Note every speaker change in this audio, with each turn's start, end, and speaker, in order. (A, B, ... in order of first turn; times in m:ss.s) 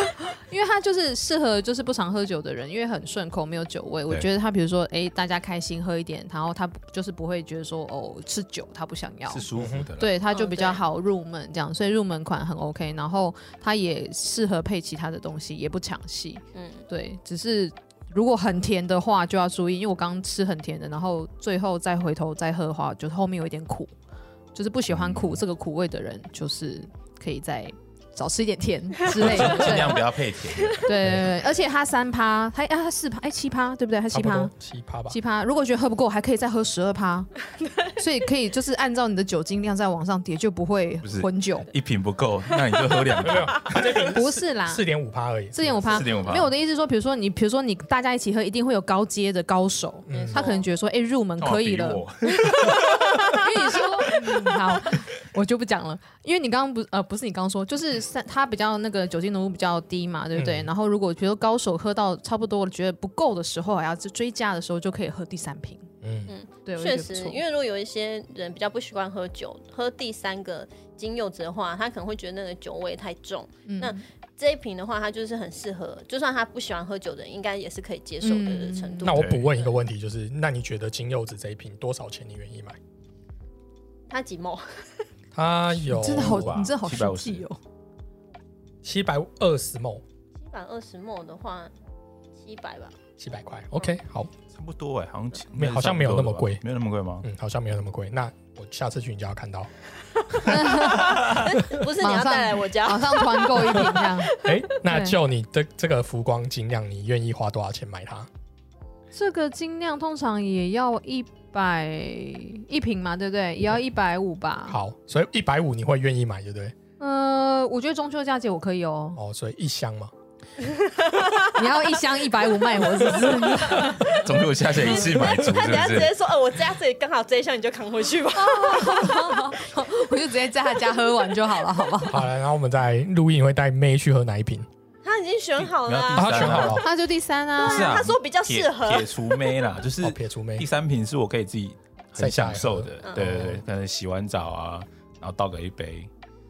0:00.2-0:09.4 A
0:09.3-0:10.2 B
0:09.5-0:09.9 C
0:10.0-0:23.9 A
0:10.3-0:10.8 D
0:16.5-0:16.9 D
0:24.5-0:30.0 A
0:24.9-0:25.4 B
0:29.1-0:31.1 B
0:29.3-0:29.9 C
0:29.3-0:29.8 D
0:30.8-0:34.5 A
0:34.1-0:35.2 C
0:35.1-0:41.7 A
0:41.0-0:44.0 B
0:43.2-0:46.0 C
0:44.1-0:44.8 A
0:45.5-1:05.9 A
0:45.9-0:46.5 B
0:50.1-0:50.4 C
0:50.1-0:50.6 D
0:51.4-0:54.6 B
1:00.4-1:00.7 C
1:06.0-1:06.3 C
1:06.3-1:19.7 D
1:06.6-1:07.4 A
1:13.6-1:14.0 A
1:18.2-1:19.1 A
1:19.0-1:22.8 C
1:19.1-1:19.5 B
1:24.1-1:25.1 D
1:25.3-1:26.6 C
1:25.8-1:27.6 A
1:25.9-1:27.4 B
1:28.8-1:30.0 C
1:30.4-1:31.7 D
1:32.4-1:32.9 D
1:33.2-1:34.3 C
1:34.5-1:37.2 B
1:35.5-1:36.6 C
1:37.2-1:39.7 C
1:40.4-1:45.2 A
1:40.5-1:44.6 D
1:44.4-1:48.3 C
1:49.1-1:54.8 A
1:54.7-1:56.7 C
1:57.0-1:59.2 A
1:59.2-2:00.1 C
2:00.6-2:01.7 D
2:01.5-2:04.2 A
2:03.2-2:09.5 D
2:03.8-2:06.1 B
2:08.4-2:12.3 A
2:12.1-2:14.7 C
2:15.0-2:16.8 D
2:15.6-2:16.8 B
2:16.1-2:16.9 C
2:16.8-2:18.0 A
2:17.6-2:19.7 D
2:17.6-2:26.1 B
2:20.0-2:20.7 C
2:22.2-2:23.6 C
2:23.0-2:23.4 D